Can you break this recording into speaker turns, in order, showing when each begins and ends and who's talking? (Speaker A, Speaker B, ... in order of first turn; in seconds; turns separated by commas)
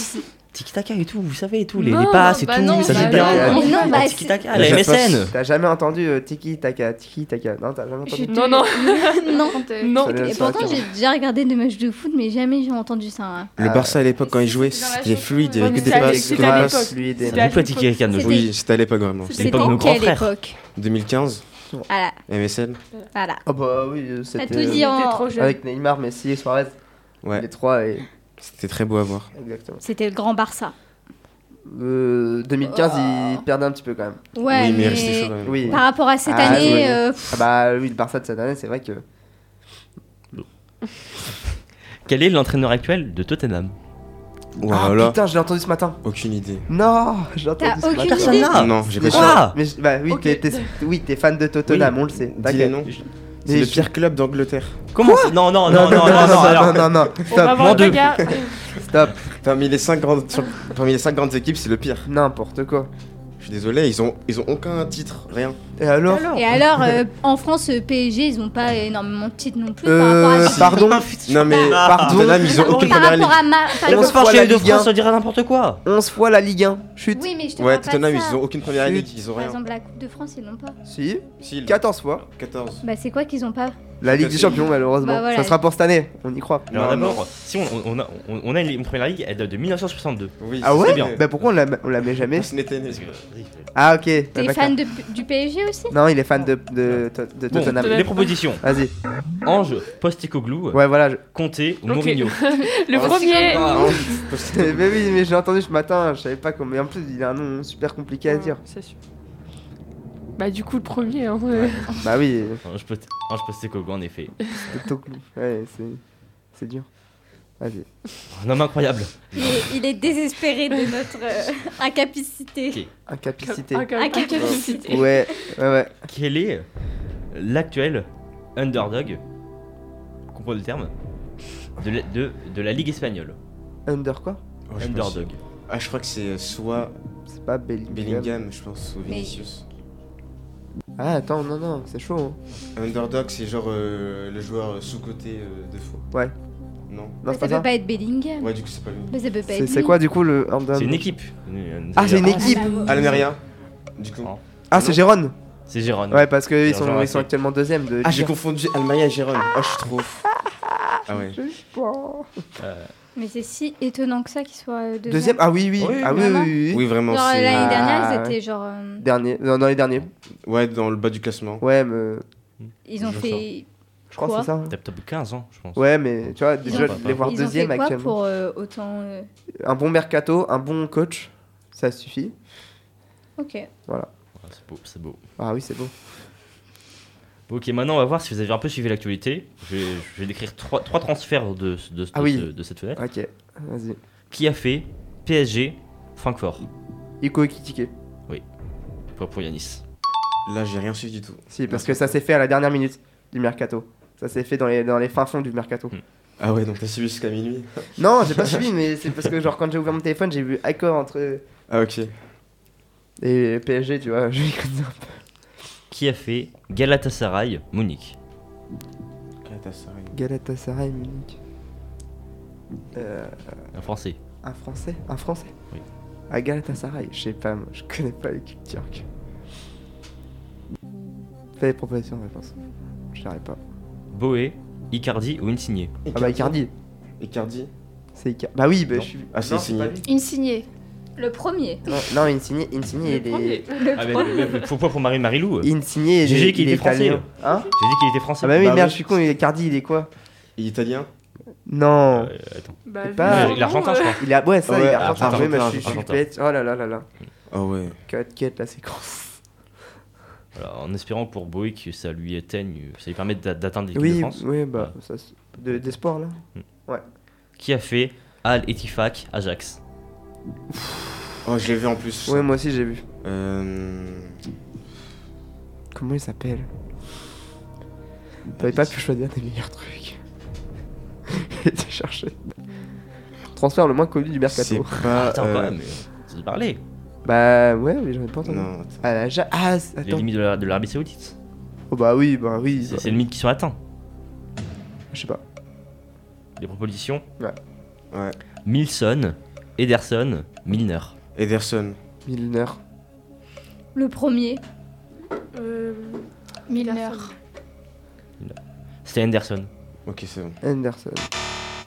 Speaker A: 0.5-5.3, Speaker B: 1.8-4.1, Speaker C: 2.1-3.6, Speaker D: 2.6-4.4, Speaker E: 3.1-3.8, Speaker F: 4.5-5.3, Speaker E: 4.6-8.4, Speaker D: 8.1-13.5, Speaker B: 8.3-10.6, Speaker C: 9.2-10.1, Speaker E: 10.0-10.8, Speaker F: 13.6-17.4, Speaker E: 13.6-14.0, Speaker C: 14.2-16.1, Speaker B: 15.6-18.0, Speaker E: 15.8-17.4, Speaker A: 17.3-18.5, Speaker D: 18.1-18.5, Speaker F: 18.1-19.8, Speaker D: 19.3-20.6, Speaker A: 19.3-20.3, Speaker F: 20.8-21.4, Speaker D: 21.9-22.2, Speaker F: 22.3-22.8, Speaker D: 23.1-23.4, Speaker E: 23.4-26.7, Speaker D: 24.4-25.3, Speaker B: 24.5-25.6, Speaker E: 27.3-28.1, Speaker F: 28.4-29.3, Speaker E: 29.3-29.8, Speaker D: 29.8-30.7, Speaker E: 31.6-34.2, Speaker D: 32.6-33.4, Speaker D: 34.3-37.4, Speaker F: 34.5-35.8, Speaker E: 35.4-39.0, Speaker F: 36.4-36.9, Speaker A: 42.0-43.7, Speaker F: 44.6-45.2, Speaker E: 44.7-46.0, Speaker F: 46.0-46.6, Speaker E: 46.7-52.9, Speaker D: 47.6-48.5, Speaker A: 48.0-49.6, Speaker F: 48.5-49.4, Speaker B: 50.1-50.7, Speaker F: 51.7-52.9, Speaker E: 53.4-53.9, Speaker F: 53.5-54.8, Speaker A: 54.9-58.2, Speaker E: 55.0-58.0, Speaker F: 55.8-56.8, Speaker B: 57.3-58.6, Speaker E: 58.8-59.1, Speaker F: 59.4-62.1, Speaker E: 62.0-62.9, Speaker F: 63.4-65.6, Speaker E: 65.8-66.9, Speaker A: 66.1-66.4, Speaker D: 66.3-70.8, Speaker E: 69.8-71.1, Speaker F: 70.4-73.4, Speaker A: 70.4-75.8, Speaker D: 71.4-71.8, Speaker E: 71.8-72.6, Speaker D: 72.5-74.3, Speaker E: 73.8-74.9, Speaker E: 75.8-77.2, Speaker D: 77.1-78.4, Speaker F: 77.6-79.6, Speaker E: 78.7-79.1, Speaker D: 79.3-80.8, Speaker E: 80.8-82.2, Speaker F: 81.4-82.8, Speaker D: 82.8-83.8, Speaker E: 84.0-86.7, Speaker F: 84.0-84.7, Speaker D: 85.0-85.6, Speaker F: 86.7-87.2, Speaker A: 86.7-91.4, Speaker F: 90.4-91.2, Speaker E: 90.6-92.5, Speaker F: 92.2-93.1, Speaker A: 92.8-93.7, Speaker E: 93.7-94.8, Speaker D: 94.3-96.0, Speaker E: 95.9-98.9, Speaker A: 96.9-98.6, Speaker B: 97.7-98.2, Speaker A: 99.4-104.0, Speaker E: 100.7-101.2, Speaker B: 101.9-104.2, Speaker F: 102.9-105.0, Speaker E: 104.4-108.6, Speaker B: 108.3-109.0, Speaker B: 110.4-111.9, Speaker A: 111.5-112.1, Speaker E: 112.0-112.6, Speaker A: 112.6-114.8, Speaker E: 114.7-116.0, Speaker E: 116.5-116.9, Speaker E: 117.6-117.9, Speaker A: 118.3-119.7, Speaker D: 119.4-122.8, Speaker E: 123.1-126.0, Speaker B: 123.4-125.2, Speaker D: 123.9-125.0, Speaker A: 126.1-126.7, Speaker A: 127.3-129.2, Speaker A: 130.3-130.9, Speaker A: 131.8-133.3, Speaker E: 133.8-134.4, Speaker F: 134.7-136.9, Speaker A: 134.8-135.4, Speaker E: 137.3-138.4, Speaker F: 137.9-139.6, Speaker D: 139.1-139.4, Speaker E: 141.0-142.4, Speaker F: 142.8-146.0, Speaker F: 146.9-147.2, Speaker E: 147.2-147.7, Speaker D: 147.3-148.5, Speaker F: 148.4-149.1, Speaker D: 149.1-150.0, Speaker E: 149.5-151.1, Speaker A: 150.7-152.6, Speaker E: 151.9-152.9, Speaker D: 152.3-153.2, Speaker F: 152.8-153.4, Speaker F: 154.0-155.0, Speaker E: 154.7-155.3, Speaker A: 155.7-157.3, Speaker E: 156.1-158.3, Speaker F: 158.0-160.2, Speaker E: 160.3-162.4, Speaker F: 161.1-161.4, Speaker A: 162.6-162.9, Speaker D: 163.2-165.4, Speaker E: 165.1-166.9, Speaker F: 165.8-167.9, Speaker D: 166.0-166.5, Speaker D: 167.1-169.0, Speaker E: 167.5-168.4, Speaker E: 169.0-170.1, Speaker F: 170.4-171.6, Speaker E: 171.6-172.2, Speaker A: 172.6-173.4, Speaker D: 172.9-174.5, Speaker E: 174.1-174.8, Speaker A: 174.7-175.8, Speaker E: 175.7-178.1, Speaker A: 176.6-177.3, Speaker D: 176.6-179.3, Speaker E: 179.6-182.3, Speaker D: 183.4-183.7, Speaker A: 184.4-185.2, Speaker E: 185.4-185.9, Speaker A: 187.5-193.0, Speaker E: 192.1-194.0, Speaker A: 194.3-196.7, Speaker E: 197.2-197.9, Speaker A: 199.2-199.8, Speaker F: 200.4-202.0, Speaker E: 201.5-205.9, Speaker F: 206.4-208.6, Speaker E: 208.0-211.4, Speaker F: 211.7-212.1, Speaker E: 213.2-215.2, Speaker A: 215.9-218.2, Speaker F: 219.4-220.1, Speaker E: 220.1-221.4, Speaker E: 222.9-223.4, Speaker A: 223.7-224.2, Speaker E: 224.4-225.5, Speaker E: 226.3-229.0, Speaker E: 231.6-232.5, Speaker E: 233.1-233.6, Speaker A: 234.1-235.9, Speaker F: 236.0-236.6, Speaker E: 236.1-236.7, Speaker F: 237.2-237.7, Speaker E: 238.2-240.1, Speaker F: 239.3-240.0, Speaker C: 240.0-240.7, Speaker D: 241.2-241.8, Speaker E: 241.9-243.7, Speaker B: 243.1-243.9, Speaker D: 243.7-244.7, Speaker A: 243.9-247.3, Speaker E: 245.6-247.7, Speaker A: 247.8-248.8, Speaker E: 248.4-250.1, Speaker F: 248.6-248.9, Speaker F: 250.6-251.1, Speaker E: 251.7-252.3, Speaker A: 252.1-254.2, Speaker B: 252.8-254.2, Speaker E: 253.0-253.7, Speaker E: 254.2-257.1, Speaker F: 254.7-256.0, Speaker A: 254.9-256.2, Speaker F: 257.5-258.0, Speaker E: 258.1-259.3, Speaker A: 260.5-264.9, Speaker E: 263.9-267.0, Speaker A: 267.6-269.8, Speaker F: 271.4-272.5, Speaker E: 272.2-273.0, Speaker F: 273.2-274.3, Speaker E: 275.9-276.7, Speaker E: 278.6-280.2, Speaker F: 278.6-278.9, Speaker E: 281.3-282.4, Speaker E: 283.5-285.2, Speaker F: 284.5-285.7, Speaker A: 285.1-286.8, Speaker E: 287.2-290.3, Speaker F: 288.4-289.0, Speaker A: 290.0-291.3, Speaker E: 291.9-293.2, Speaker A: 292.8-293.8, Speaker E: 295.1-295.4, Speaker A: 296.6-297.2, Speaker F: 298.1-298.4, Speaker A: 298.6-301.1, Speaker F: 301.4-302.0, Speaker E: 302.2-302.8, Speaker D: 303.9-304.6, Speaker B: 305.5-307.3, Speaker C: 306.7-307.3, Speaker A: 308.4-309.7, Speaker F: 310.1-310.6, Speaker E: 310.6-311.3